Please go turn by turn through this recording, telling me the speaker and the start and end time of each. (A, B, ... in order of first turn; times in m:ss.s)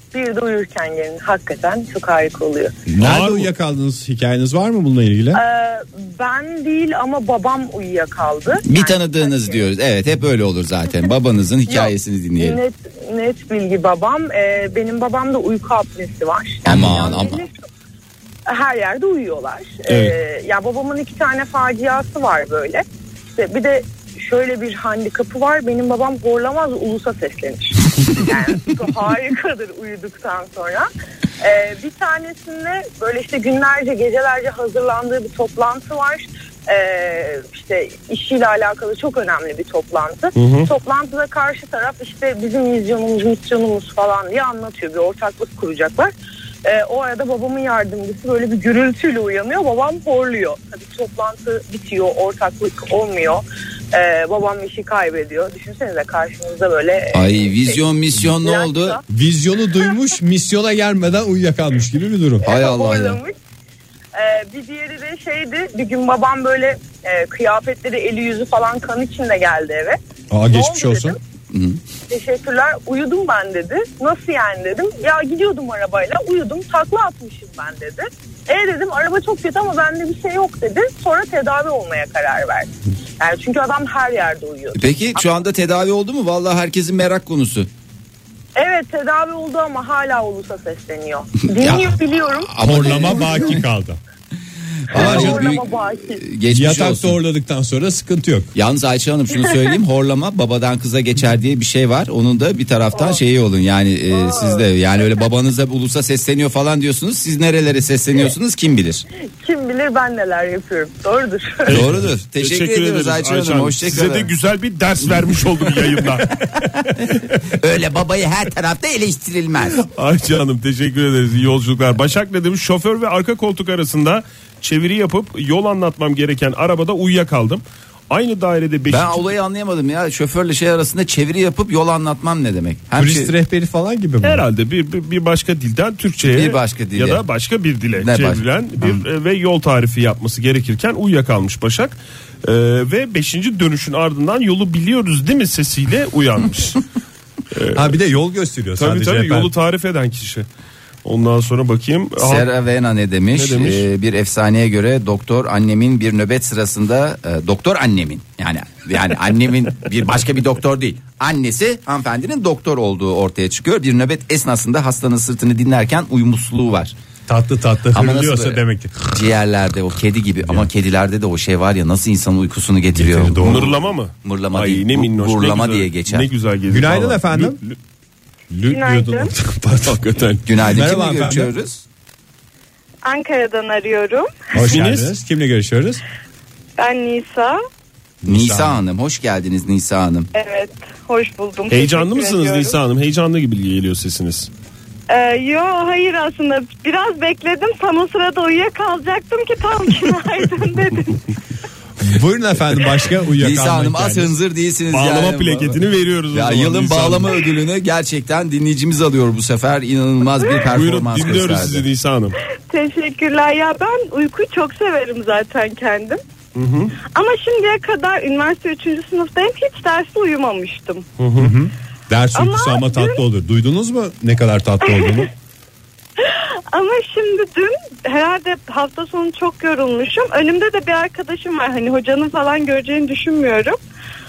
0:00.1-0:02.8 A
0:02.9-0:05.4 B
0:03.0-0:03.5 C
0:05.3-0:09.7 A
0:08.6-0:12.6 D
0:11.7-0:17.5 A
0:16.6-0:17.4 D
0:16.7-0:17.1 C
0:18.5-0:30.9 A
0:19.9-0:20.2 C
0:31.4-0:46.1 A
0:40.4-0:40.7 C
0:46.6-0:59.0 A
0:57.1-0:59.0 D
0:59.1-1:02.4 B
1:02.4-1:03.3 A
1:02.4-1:03.2 D
1:04.1-1:11.2 A
1:10.3-1:11.2 B
1:11.5-1:11.8 D
1:12.1-1:25.2 A
1:24.7-1:27.7 D
1:28.6-1:33.4 A
1:31.6-1:31.9 D
1:32.5-1:33.6 D
1:32.6-1:34.0 B
1:34.9-1:37.2 D
1:34.9-1:36.2 A
1:34.9-1:35.4 B
1:36.5-1:38.5 B
1:38.5-1:49.0 D
1:42.9-1:43.2 A
1:44.1-1:44.6 A
1:49.4-1:51.8 A
1:51.6-1:56.5 C
1:51.7-1:54.3 D
1:57.5-1:59.8 D
1:59.8-2:09.3 C
2:08.9-2:13.3 D
2:12.9-2:14.4 B
2:14.2-2:26.8 C
2:16.2-2:17.2 D
2:18.0-2:19.0 D
2:27.5-2:27.9 C
2:27.7-2:29.5 B
2:28.8-2:30.4 C
2:31.0-2:32.5 C
2:32.2-2:46.9 D
2:33.3-2:33.8 C
2:47.3-2:49.1 B
2:47.9-2:56.3 D
2:52.9-2:53.7 B
2:53.4-2:57.8 C
2:56.7-2:57.6 B
2:58.5-3:00.0 B
2:58.7-2:59.3 E
2:59.8-3:00.4 C
3:00.4-3:01.8 D
3:00.6-3:01.5 B
3:03.0-3:04.5 E
3:04.5-3:06.0 B
3:04.6-3:05.1 C
3:06.8-3:07.6 E
3:08.2-3:08.8 B
3:08.3-3:10.3 D
3:10.3-3:12.8 E
3:11.7-3:14.5 C
3:15.1-3:21.2 E
3:22.0-3:24.3 B
3:23.4-3:25.8 D
3:24.9-3:27.4 C
3:26.3-3:31.8 D
3:30.7-3:32.4 C
3:32.7-3:36.2 E
3:36.5-3:37.0 C
3:37.1-3:41.0 E
3:41.2-3:41.5 C
3:41.4-3:45.3 B
3:42.4-3:43.2 E
3:44.9-3:45.2 E
3:46.7-3:53.8 E